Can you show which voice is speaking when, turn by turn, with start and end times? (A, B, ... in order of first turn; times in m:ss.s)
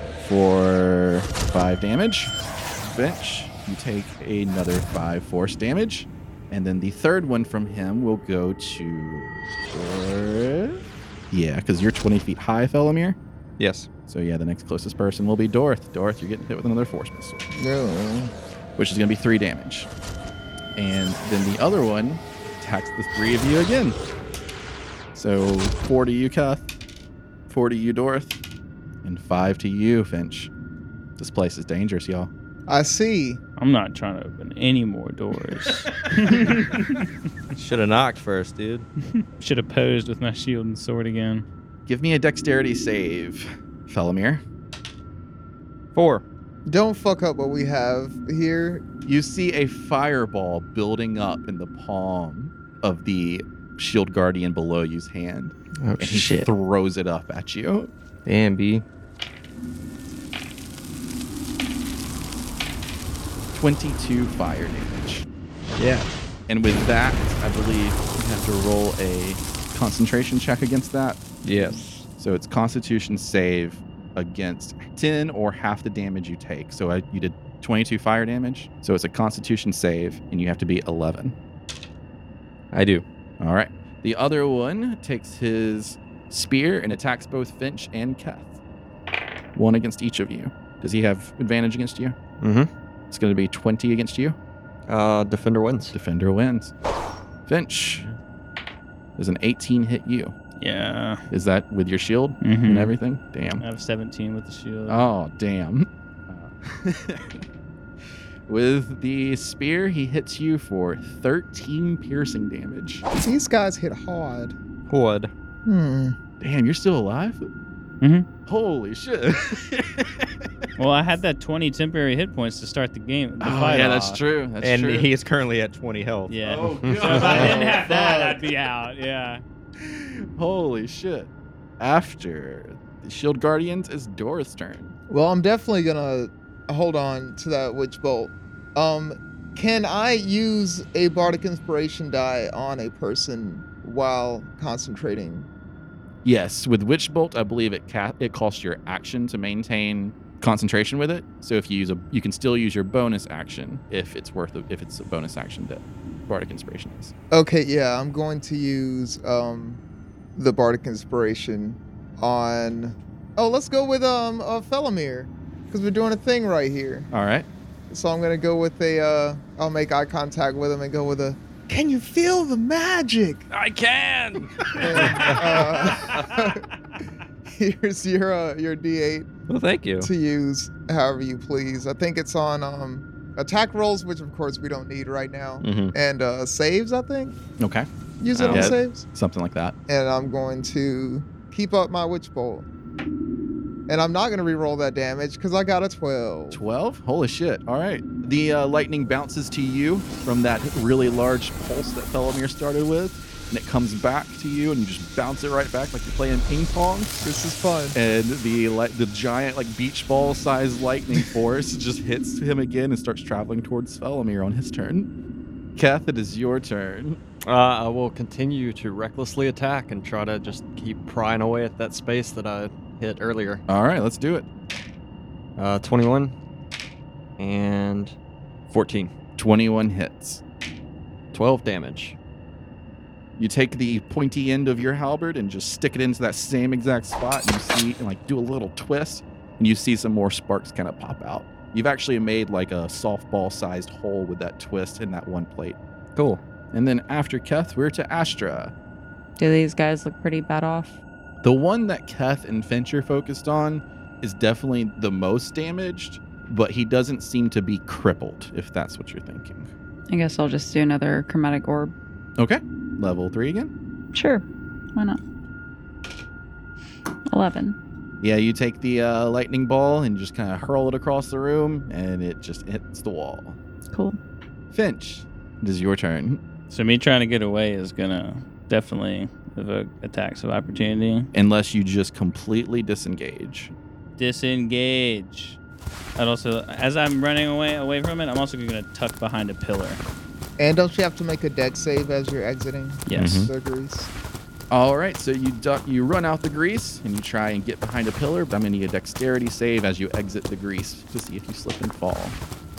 0:00.2-0:13.2 A
0:13.6-0:13.9 B
0:14.1-0:17.4 A
0:17.5-0:18.3 C
0:18.8-0:19.9 A
0:20.8-0:24.0 A
0:25.1-0:26.7 A
0:27.5-0:28.4 A
0:29.0-0:30.5 A
0:31.2-0:32.3 A
0:32.7-0:33.4 C
0:33.6-0:37.1 D
0:37.5-0:38.9 B
0:39.2-0:41.4 D
0:41.9-0:44.4 A
0:45.9-0:46.2 B
0:46.7-0:48.8 C
0:49.0-0:57.9 A
0:55.8-0:56.5 B
0:58.2-0:58.8 B
1:03.5-1:05.3 A
1:05.8-1:06.1 B
1:06.5-1:21.4 A
1:11.4-1:12.0 B
1:22.7-1:23.0 B
1:23.4-1:28.6 A
1:29.5-1:32.2 A
1:32.4-1:32.7 E
1:33.1-1:34.4 A
1:34.9-1:35.9 E
1:35.9-1:36.7 A
1:37.5-1:38.1 A
1:39.2-1:40.3 A
1:40.6-1:41.2 D
1:41.3-1:43.6 A
1:42.4-1:42.9 D
1:43.6-1:45.1 D
1:44.9-1:47.4 A
1:48.5-1:53.0 A
1:53.2-1:54.5 C
1:54.9-1:55.3 B
1:55.6-1:56.2 C
1:56.4-1:57.5 A
1:58.0-1:58.3 D
1:58.4-2:00.7 A
2:00.8-2:04.2 D
2:03.4-2:05.1 A
2:04.6-2:06.3 B
2:06.3-2:09.4 D
2:06.4-2:08.3 A
2:06.8-2:07.2 E
2:07.1-2:08.4 C
2:09.8-2:14.9 A
2:15.1-2:25.5 C
2:26.2-2:37.1 A
2:37.3-2:39.8 C
2:40.4-2:47.1 C
2:47.1-2:47.5 A
2:47.9-2:53.4 C
2:53.5-2:56.2 B
2:54.7-2:55.9 A
2:54.8-2:56.6 C
2:57.6-2:59.3 C
2:59.5-3:00.1 B
3:00.0-3:07.4 C
3:05.6-3:05.9 B
3:07.6-3:07.9 A
3:08.2-3:09.0 C
3:08.3-3:08.8 B
3:08.4-3:09.8 A
3:09.9-3:12.7 C
3:13.9-3:16.6 C
3:16.5-3:27.2 A
3:27.2-3:28.0 C
3:27.9-3:35.1 A
3:35.7-3:37.2 A
3:37.4-3:43.6 E
3:43.7-3:44.5 A
3:45.6-3:46.4 E
3:47.4-3:48.2 E
3:48.7-3:49.1 E
3:49.4-3:50.4 A
3:51.3-3:52.2 E
3:53.4-4:05.8 A
4:06.2-4:06.4 E
4:06.7-4:08.7 A
4:09.4-4:11.0 F
4:11.4-4:19.7 A
4:20.1-4:21.9 F
4:22.4-4:23.7 A
4:24.1-4:25.2 F
4:27.3-4:27.8 F
4:28.2-4:33.6 A
4:33.9-4:34.2 F
4:34.7-4:36.4 A
4:36.7-4:41.3 D
4:41.3-4:43.7 A
4:44.2-4:45.6 D
4:46.2-4:50.0 D
4:50.6-4:54.1 C
4:53.1-4:53.5 D
4:53.1-4:53.5 A
4:54.7-5:02.4 A